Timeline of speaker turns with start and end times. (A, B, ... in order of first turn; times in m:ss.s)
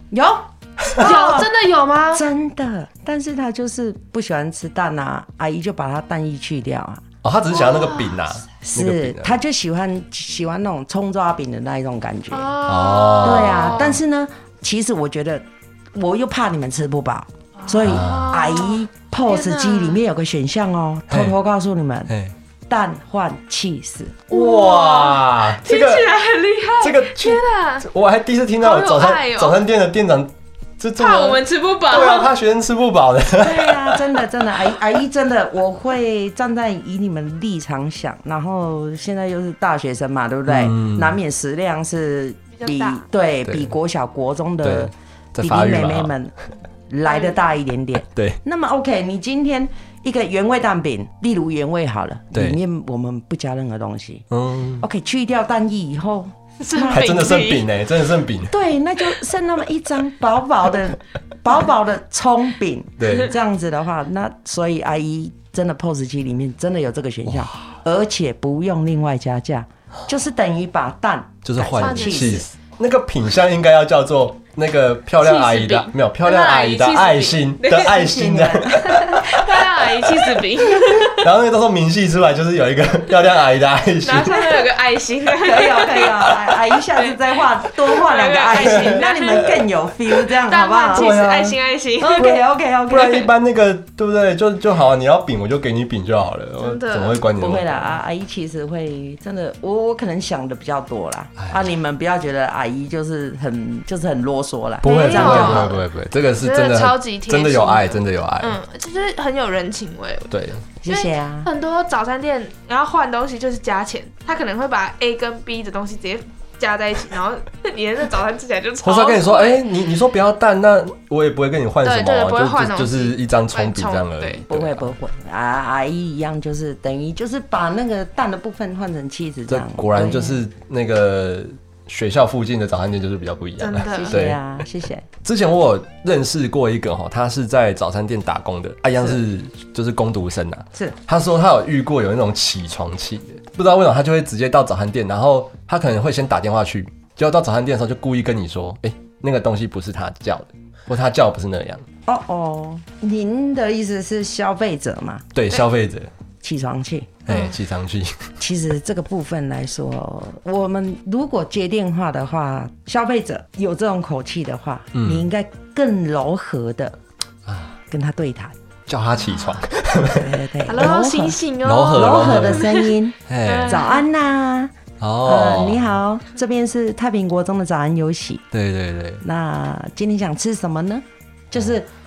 0:00.1-0:01.5 A
0:01.0-0:02.2 B
0:02.1-0:07.0 A
0:07.2-0:09.4 C
0:07.5-0:08.3 B
0:08.6-0:12.5 A
0:12.3-0:14.0 B
0:12.7-0:13.8 C
0:13.2-0:22.1 A
0:17.6-0:20.0 B
0:17.8-0:18.4 C
0:21.1-0:21.4 C
0:22.1-0:22.3 C
0:22.7-0:24.3 A
0:24.3-0:26.1 C
0:24.3-0:27.9 B
0:26.8-0:34.2 C
0:28.6-0:29.6 B
0:31.0-0:32.3 B
0:33.4-0:46.3 A
0:40.4-0:41.2 C
0:42.5-0:43.0 B
0:43.4-0:43.7 C
0:44.6-0:46.1 C
0:46.9-0:54.2 A
0:47.0-0:47.4 B
0:48.1-0:48.4 C
0:52.3-0:52.6 C
0:54.3-0:54.8 C
0:54.8-0:57.4 A
0:56.6-0:57.7 B
0:56.9-0:58.6 C
0:58.5-1:12.4 A
1:03.0-1:03.3 C
1:07.3-1:07.6 C
1:11.4-1:24.6 C
1:11.8-1:12.4 B
1:15.2-1:17.9 B
1:17.8-1:19.3 A
1:19.1-1:21.3 B
1:24.0-1:29.6 B
1:25.4-1:31.1 A
1:28.5-1:29.0 C
1:30.4-1:32.3 B
1:30.9-1:31.6 C
1:32.0-1:33.3 A
1:32.2-1:38.0 C
1:36.6-1:37.2 B
1:37.4-1:45.8 A
1:41.4-1:41.7 C
1:44.8-1:45.8 B
1:44.8-1:48.6 C
1:46.4-1:59.7 B
1:50.3-1:50.6 C
1:50.8-1:51.5 A
1:58.8-2:04.9 C
2:01.8-2:04.4 B
2:04.5-2:10.4 A
2:09.5-2:14.4 C
2:13.6-2:14.2 B
2:13.9-2:15.1 A
2:15.2-2:31.8 C
2:32.0-2:35.3 A
2:35.3-2:36.1 C
2:36.4-2:37.2 A
2:37.2-2:38.3 C
2:37.3-2:37.5 B
2:38.4-2:47.0 A
2:44.9-2:45.3 C
2:47.5-2:47.8 C
2:47.9-2:48.6 A
2:48.9-2:50.8 C
2:49.2-2:49.6 B
2:50.1-2:51.4 A
2:50.6-2:52.9 B
2:51.6-2:52.7 C
2:51.9-2:58.4 A
2:53.3-2:53.9 C
2:53.4-2:54.0 B
2:55.0-2:56.0 C
2:58.5-2:59.2 C
2:59.2-3:01.9 A